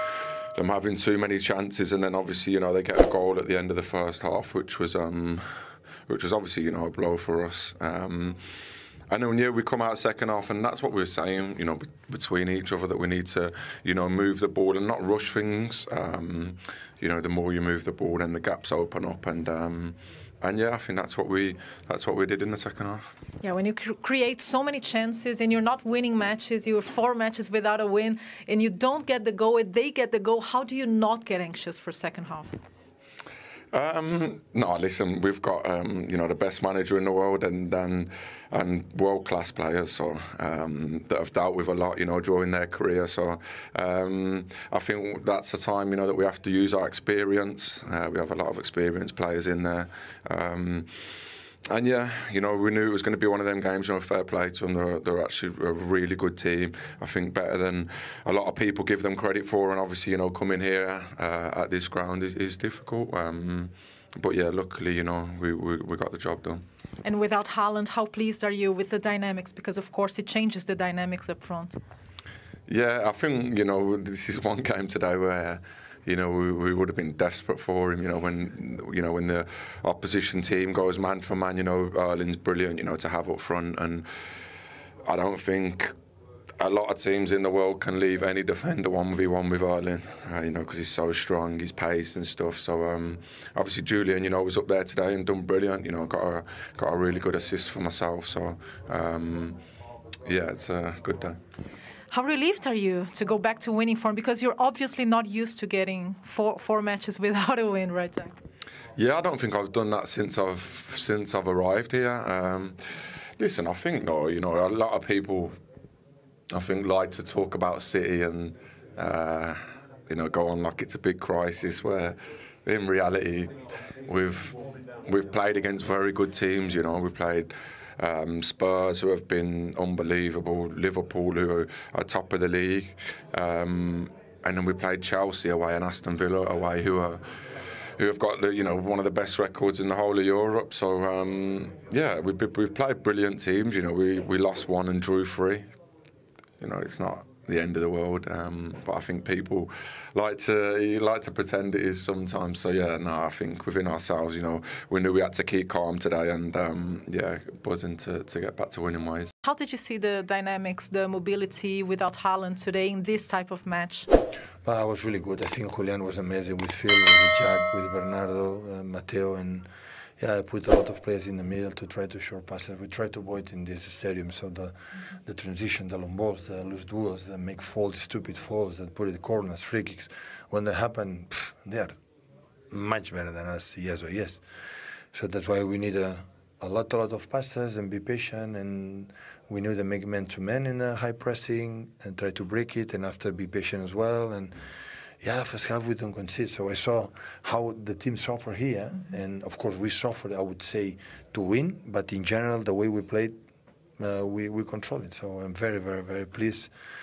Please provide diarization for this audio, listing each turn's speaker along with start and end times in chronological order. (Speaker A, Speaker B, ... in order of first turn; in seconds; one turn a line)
Speaker A: 0.6-5.4
Speaker A: 6.1-8.4
Speaker A: 9.1-23.2
Speaker B: 23.4-32.5
Speaker A: 33.7-50.9
Speaker A: 51.7-66.6
Speaker B: 67.0-71.8
Speaker A: 72.7-84.1
Speaker A: 85.1-85.9
Speaker A: 86.6-99.6
Speaker A: 100.2-101.4
Speaker B: 102.1-108.3
Speaker A: 109.0-112.8
Speaker A: 113.4-115.6
Speaker A: 116.5-119.6
Speaker A: 120.1-123.5
Speaker A: 124.1-137.2
Speaker A: 138.0-145.7
Speaker A: 146.6-159.3
Speaker B: 159.4-164.1
Speaker C: 164.7-169.7
Speaker C: 170.2-174.7
Speaker C: 175.2-182.0
Speaker C: 182.7-184.4
Speaker C: 185.1-194.5
Speaker C: 195.2-203.4
Speaker C: 204.0-206.7